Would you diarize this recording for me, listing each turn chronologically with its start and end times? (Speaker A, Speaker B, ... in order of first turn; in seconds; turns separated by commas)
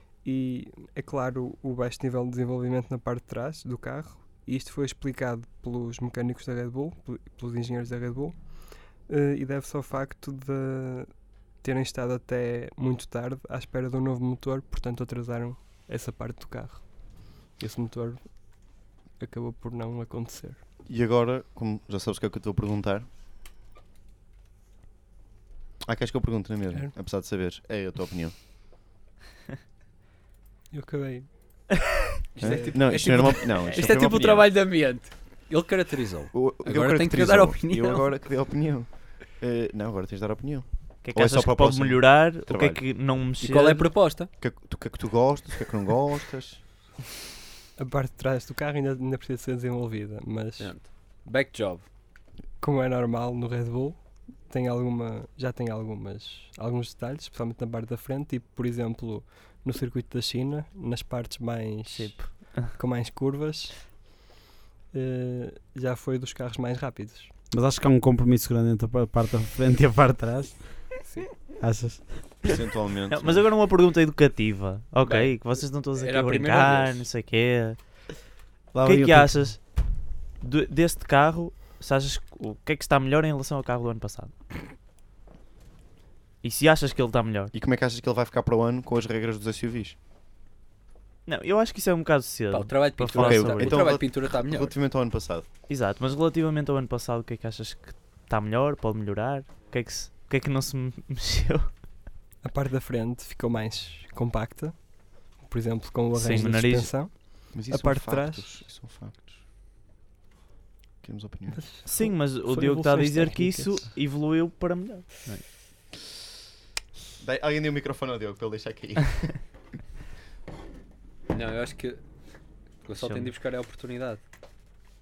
Speaker A: 0.2-16.9, Speaker A: 17.5-18.6, Speaker A: 19.2-20.6, Speaker B: 20.9-23.1, Speaker B: 25.8-28.3, Speaker A: 30.7-31.8, Speaker C: 32.4-38.1, Speaker B: 32.4-34.5, Speaker A: 32.4-33.3, Speaker B: 36.3-42.8, Speaker D: 41.0-43.9, Speaker C: 43.4-44.3, Speaker B: 44.4-46.6, Speaker A: 47.8-50.7, Speaker C: 50.6-51.9, Speaker A: 52.6-63.9, Speaker D: 61.9-62.7, Speaker A: 64.9-67.3, Speaker E: 67.5-70.9, Speaker A: 71.0-71.3, Speaker E: 71.6-72.4, Speaker B: 72.4-73.5, Speaker D: 73.1-77.8, Speaker C: 75.0-77.0, Speaker E: 78.7-79.5, Speaker D: 78.8-79.7, Speaker D: 80.4-84.3, Speaker D: 86.4-87.5, Speaker B: 87.5-90.0, Speaker D: 91.2-94.0, Speaker C: 92.5-94.7, Speaker B: 93.1-95.4, Speaker D: 95.7-101.7, Speaker A: 102.4-108.7, Speaker D: 106.1-107.1, Speaker B: 107.5-109.4, Speaker B: 111.0-111.6, Speaker A: 111.5-113.9, Speaker D: 111.8-115.4, Speaker B: 117.2-119.5, Speaker C: 121.3-122.1, Speaker C: 122.8-124.2, Speaker D: 122.9-123.3